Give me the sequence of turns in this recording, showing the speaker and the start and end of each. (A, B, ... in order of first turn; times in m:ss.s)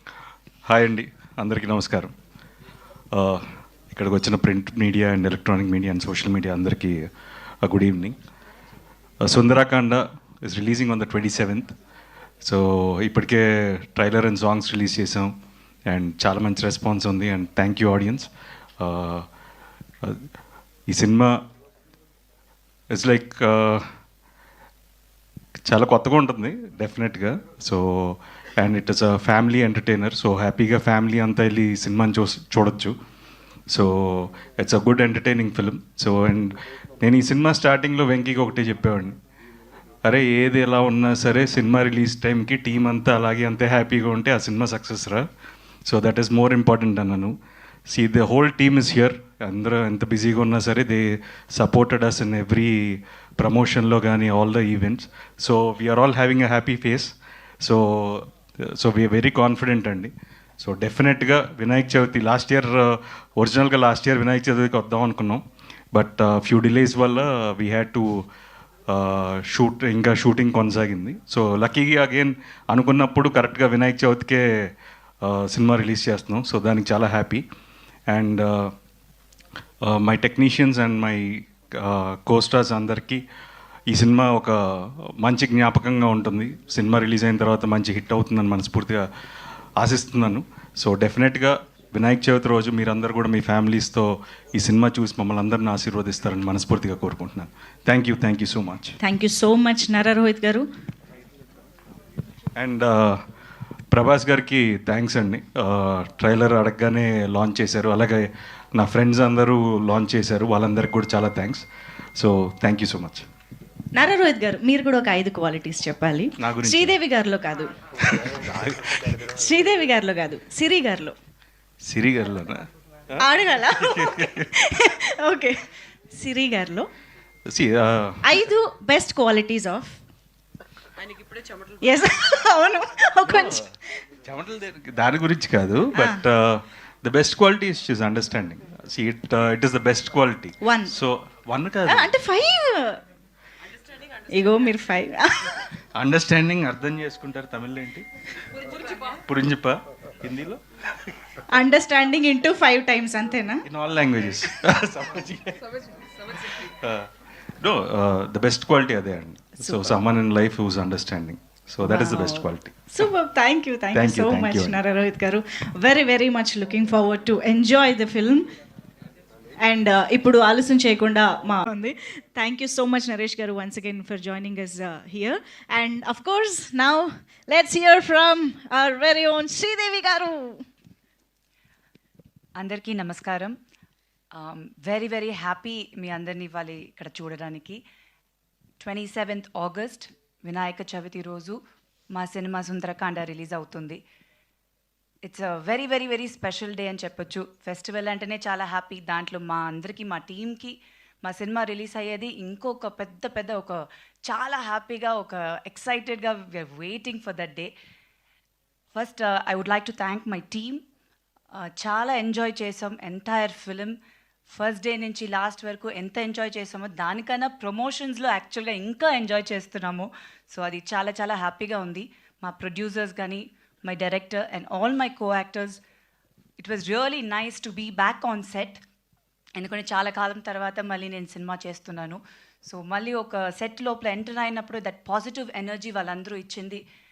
0:00.7-0:02.1 A
0:03.1-0:07.0 A
0:07.6-0:08.2 A
0:09.2-0:11.7 A
0:12.4-0:15.3 A
0:15.9-0:19.3 A
0:20.9-0:21.4 A
0:22.9-0:23.8 A
0:25.7-0:32.9 A
0:33.7-0:39.1 A
0:40.0-0:45.3 A
0:45.9-0:47.3 A
0:47.9-1:05.4 A
1:05.9-1:08.2 A
1:08.9-1:14.7 A
1:15.2-1:17.4 A
1:18.1-1:18.7 A
1:19.8-1:23.2 A
1:23.9-1:29.1 A
1:29.8-1:39.0 A
1:39.0-1:40.6 B
1:42.6-1:43.2 A
1:43.9-1:51.6 A
1:52.2-1:53.3 A
1:54.0-1:57.7 B
1:56.4-1:57.0 A
1:58.3-1:59.2 A
1:59.2-2:01.2 B
2:01.9-2:02.6 A
2:03.2-2:05.6 B
2:03.9-2:04.4 A
2:06.1-2:06.9 B
2:07.5-2:08.4 A
2:08.2-2:10.0 B
2:11.8-2:13.7 B
2:13.3-2:13.6 A
2:14.2-2:22.1 A
2:15.9-2:16.2 B
2:20.6-2:21.0 B
2:21.9-2:23.0 B
2:24.3-2:25.7 B
2:26.0-2:28.0 A
2:29.1-2:30.6 A
2:31.5-2:33.6 B
2:33.6-2:37.1 A
2:37.6-2:42.8 A
2:39.6-2:40.0 B
2:41.8-2:48.4 B
2:43.9-2:44.8 A
2:49.6-3:00.6 B
3:02.6-3:03.6 C
3:04.4-3:07.8 C
3:08.8-3:11.6 C
3:12.1-3:14.0 C
3:15.2-3:27.7 C
3:28.9-3:30.8 C
3:31.5-3:34.0 C
3:34.5-3:45.8 C
3:46.6-3:48.8 C
3:49.6-3:56.8 C